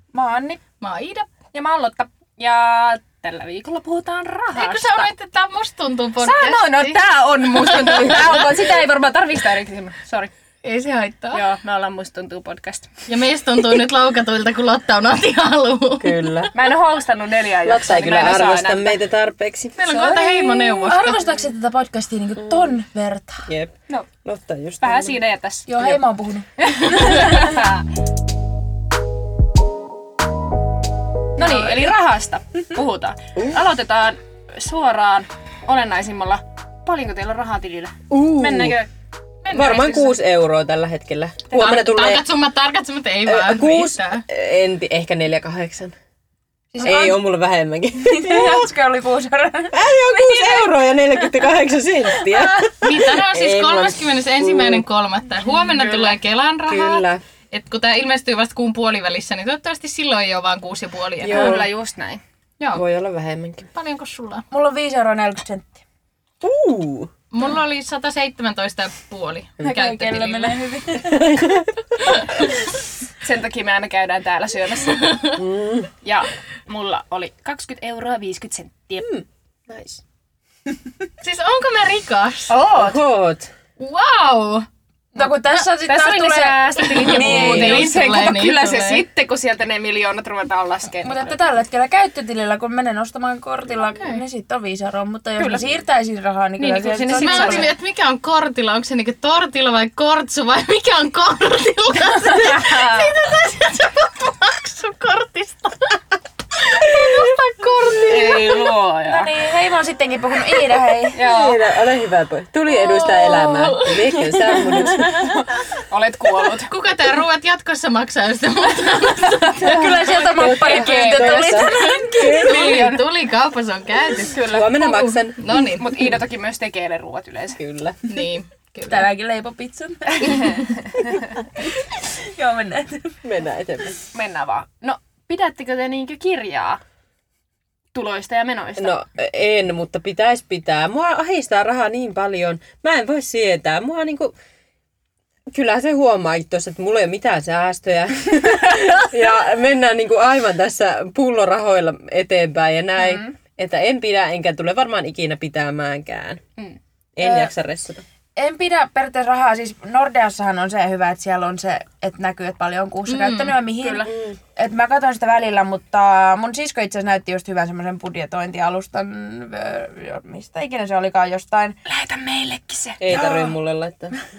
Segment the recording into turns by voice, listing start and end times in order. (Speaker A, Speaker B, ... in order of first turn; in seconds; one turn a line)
Speaker A: 0.1-0.6
Speaker B: 0.8-1.3
Speaker C: 1.5-5.1
Speaker B: 4.5-8.6
Speaker C: 6.2-10.3
Speaker B: 10.6-11.4
Speaker C: 11.3-12.9
Speaker B: 13.1-16.2
Speaker D: 16.0-16.5
Speaker C: 16.5-19.0
Speaker D: 17.6-19.9
Speaker B: 19.8-21.2
Speaker A: 19.9-23.5
Speaker D: 23.5-25.2
Speaker C: 24.8-25.7
Speaker A: 25.7-27.6
Speaker D: 25.8-26.0
Speaker C: 26.6-27.8
Speaker C: 31.4-38.9
Speaker A: 31.4-31.9
Speaker D: 33.4-33.6
Speaker D: 38.1-38.8
Speaker B: 39.4-40.1
Speaker D: 39.5-42.2
Speaker B: 41.5-44.2
Speaker D: 43.3-46.0
Speaker A: 46.7-47.2
Speaker D: 46.8-48.7
Speaker A: 48.0-51.5
Speaker D: 49.7-54.8
Speaker A: 52.2-52.7
Speaker B: 52.8-61.6
Speaker C: 55.5-56.2
Speaker D: 56.7-57.2
Speaker D: 61.2-61.7
Speaker C: 61.3-62.2
Speaker D: 62.7-63.7
Speaker B: 63.7-64.5
Speaker A: 64.5-65.8
Speaker D: 66.4-67.1
Speaker B: 67.3-70.6
Speaker A: 69.6-71.6
Speaker D: 71.0-71.9
Speaker B: 72.1-72.5
Speaker C: 73.2-75.1
Speaker B: 74.8-75.4
Speaker D: 75.4-75.9
Speaker C: 76.0-79.1
Speaker D: 79.0-80.0
Speaker B: 81.2-82.5
Speaker C: 82.5-83.0
Speaker D: 82.7-83.5
Speaker B: 83.8-84.7
Speaker A: 85.1-87.9
Speaker C: 85.2-91.4
Speaker B: 86.9-89.0
Speaker D: 87.1-87.9
Speaker A: 91.0-97.7
Speaker C: 95.4-95.6
Speaker C: 96.6-97.7
Speaker B: 97.2-106.0
Speaker C: 102.2-103.1
Speaker B: 106.6-108.7
Speaker D: 106.9-107.2
Speaker C: 108.1-109.3
Speaker A: 109.1-111.2
Speaker C: 111.1-111.6
Speaker D: 111.2-115.3
Speaker B: 112.8-114.2
Speaker A: 114.2-115.4
Speaker C: 115.0-116.7
Speaker B: 116.6-120.1
Speaker A: 119.5-122.8
Speaker C: 119.6-123.0
Speaker D: 120.3-122.8
Speaker B: 121.5-124.4
Speaker C: 124.2-127.6
Speaker D: 124.4-125.5
Speaker B: 125.4-126.1
Speaker D: 127.6-128.2
Speaker B: 128.1-129.1
Speaker A: 128.8-133.2
Speaker C: 130.2-131.3
Speaker D: 133.2-134.0
Speaker C: 134.1-136.8
Speaker C: 137.9-138.9
Speaker D: 138.8-144.3
Speaker D: 145.5-156.4
Speaker C: 153.0-153.3
Speaker D: 157.2-158.0
Speaker A: 157.2-157.5
Speaker A: 158.3-171.8
Speaker B: 163.1-163.6
Speaker C: 163.8-164.1
Speaker D: 164.1-164.4
Speaker C: 171.8-173.2
Speaker D: 173.0-174.2
Speaker A: 173.1-173.6